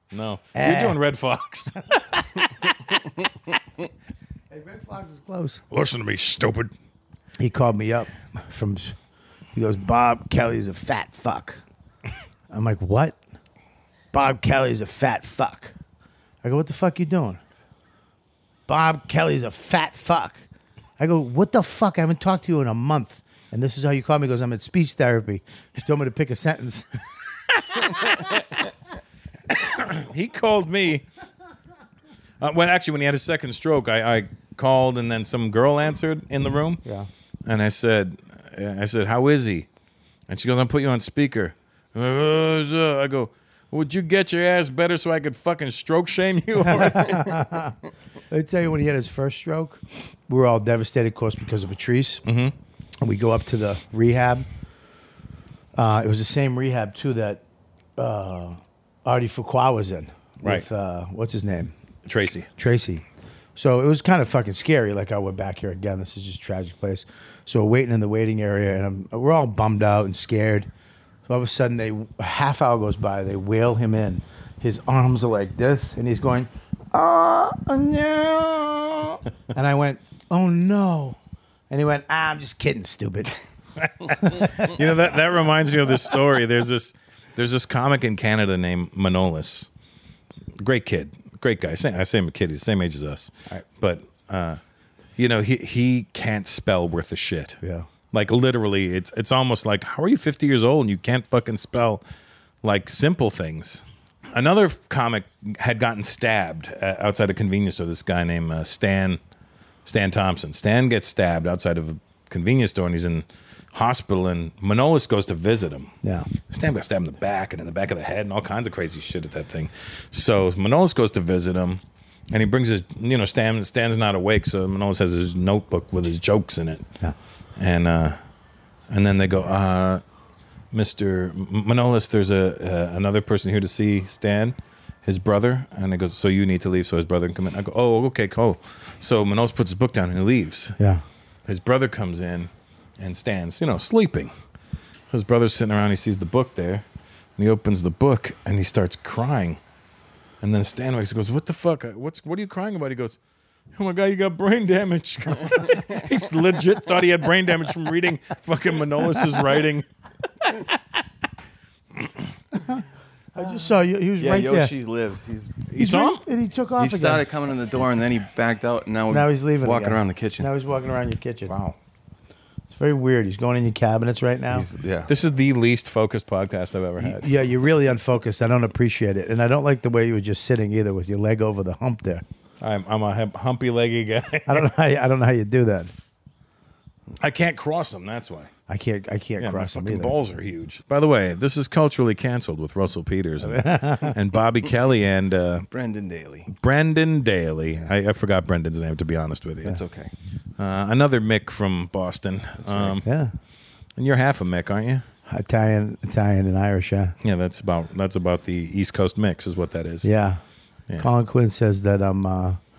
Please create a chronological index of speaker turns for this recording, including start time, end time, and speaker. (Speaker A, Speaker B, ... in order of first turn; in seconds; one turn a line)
Speaker A: 0.1-2.4
Speaker B: 0.5-1.0
Speaker B: 4.5-5.6
Speaker A: 5.7-6.7
Speaker B: 7.4-8.9
Speaker B: 9.5-11.6
Speaker B: 12.5-13.2
Speaker B: 14.1-15.7
Speaker B: 16.4-17.4
Speaker B: 18.7-20.4
Speaker B: 21.0-26.9
Speaker A: 27.9-28.2
Speaker A: 29.5-31.0
Speaker A: 32.4-36.8
Speaker A: 37.5-39.7
Speaker A: 40.3-47.4
Speaker B: 46.7-47.7
Speaker B: 48.3-52.2
Speaker A: 52.2-52.5
Speaker B: 53.0-54.5
Speaker B: 55.7-57.4
Speaker B: 58.0-61.7
Speaker A: 62.1-62.5
Speaker B: 62.6-63.0
Speaker B: 63.5-70.7
Speaker B: 71.3-81.2
Speaker B: 81.7-83.4
Speaker B: 84.0-84.7
Speaker A: 84.1-89.7
Speaker A: 90.6-94.6
Speaker A: 95.2-97.6
Speaker B: 97.6-97.9
Speaker A: 98.1-102.0
Speaker A: 102.6-109.2
Speaker A: 109.8-115.9
Speaker B: 116.0-116.3
Speaker A: 116.5-126.9
Speaker A: 127.6-128.2
Speaker A: 128.9-130.0
Speaker A: 130.7-140.8
Speaker A: 141.5-144.3
Speaker A: 145.1-146.8
Speaker A: 147.4-149.6
Speaker A: 150.4-153.2
Speaker A: 153.8-159.8
Speaker B: 163.3-164.7
Speaker C: 164.2-165.7
Speaker A: 165.7-166.2
Speaker B: 165.8-167.2
Speaker C: 166.8-170.5
Speaker B: 169.1-171.5
Speaker A: 171.5-171.8
Speaker B: 172.7-174.7
Speaker C: 174.5-175.1
Speaker A: 175.1-177.3
Speaker B: 177.0-182.2
Speaker A: 182.6-184.7
Speaker B: 184.5-185.9
Speaker A: 187.2-188.5
Speaker B: 188.7-190.1
Speaker A: 189.4-195.7
Speaker B: 193.4-194.1
Speaker C: 195.7-196.5
Speaker A: 196.5-199.8
Speaker C: 199.7-200.1
Speaker A: 200.6-203.0
Speaker B: 203.0-203.3
Speaker A: 204.0-205.0
Speaker B: 205.3-207.2
Speaker A: 207.2-210.1
Speaker B: 210.0-210.4
Speaker B: 211.0-212.6